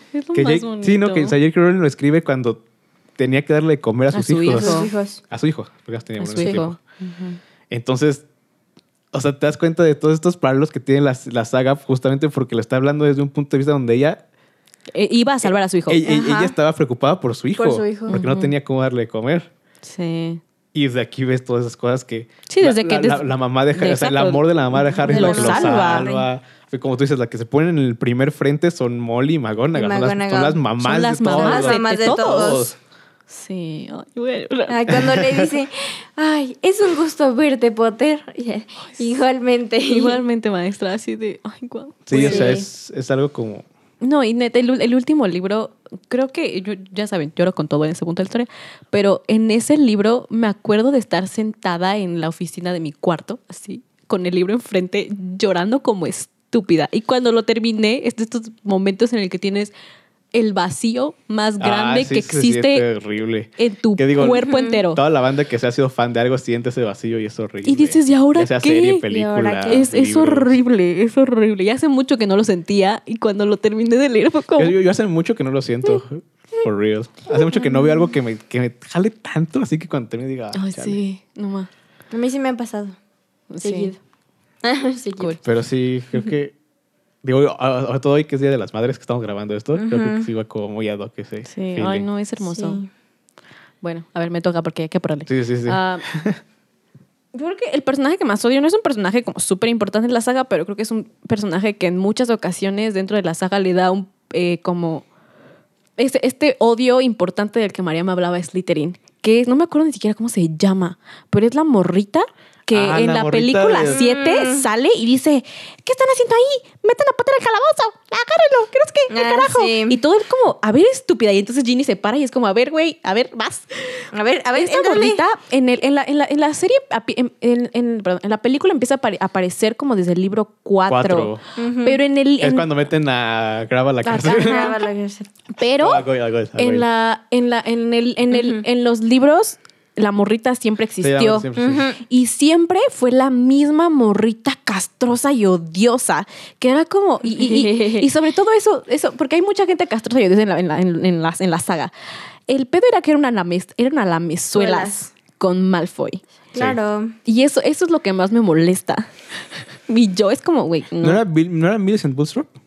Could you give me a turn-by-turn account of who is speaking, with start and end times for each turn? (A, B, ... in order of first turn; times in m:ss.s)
0:00.1-0:01.4 A
0:00.3-0:02.6 B
0:03.2-0:06.8 B
0:04.1-0:04.9 A
0:04.5-0:05.2 C
0:06.2-0:07.4 A
0:07.7-0:08.2 B
0:09.1-0:14.2 B
0:14.9-0:16.0 A
0:15.4-0:19.5 B
0:16.0-0:16.6 C
0:17.6-0:18.2 C
0:18.1-0:18.5 A
0:19.8-0:20.4 A
0:20.7-0:32.8 B
0:22.5-0:26.1 A
0:25.0-0:26.3 C
0:29.7-0:30.6 C
0:30.8-0:32.6 A
0:31.3-0:32.7 C
0:33.3-0:34.9 A
0:34.7-0:40.2 C
0:34.9-0:35.5 B
0:39.9-0:42.6 A
0:42.1-0:43.6 B
0:42.1-0:42.7 C
0:44.0-0:59.7 A
1:00.3-1:02.9 A
1:01.6-1:10.6 B
1:03.6-1:05.0 A
1:04.4-1:04.8 C
1:07.6-1:09.1 A
1:09.1-1:09.9 C
1:09.7-1:14.8 A
1:14.6-1:21.0 B
1:20.5-1:21.7 A
1:22.1-1:23.0 C
1:23.5-1:23.9 A
1:23.6-1:24.0 C
1:24.6-1:25.4 C
1:25.4-1:26.6 B
1:27.2-1:32.1 B
1:29.8-1:30.3 C
1:31.5-1:32.8 A
1:32.4-1:32.9 C
1:33.8-1:36.0 A
1:35.3-1:36.4 B
1:37.3-1:45.0 A
1:46.0-2:12.7 A
1:52.7-1:54.0 B
1:53.9-1:54.7 C
1:59.1-2:00.0 C
2:04.1-2:05.2 C
2:10.9-2:11.4 B
2:11.6-2:12.0 C
2:12.4-2:14.7 B
2:14.0-2:14.8 A
2:14.2-2:15.3 C
2:15.6-2:16.0 A
2:15.8-2:16.9 B
2:16.6-2:21.5 A
2:18.3-2:18.6 C
2:21.0-2:21.9 B
2:21.6-2:22.0 C
2:22.1-2:31.9 A
2:27.3-2:28.1 C
2:32.5-2:36.2 A
2:34.6-2:35.1 C
2:36.5-2:37.2 C
2:37.2-2:39.1 A
2:39.9-2:41.2 A
2:41.0-2:42.5 B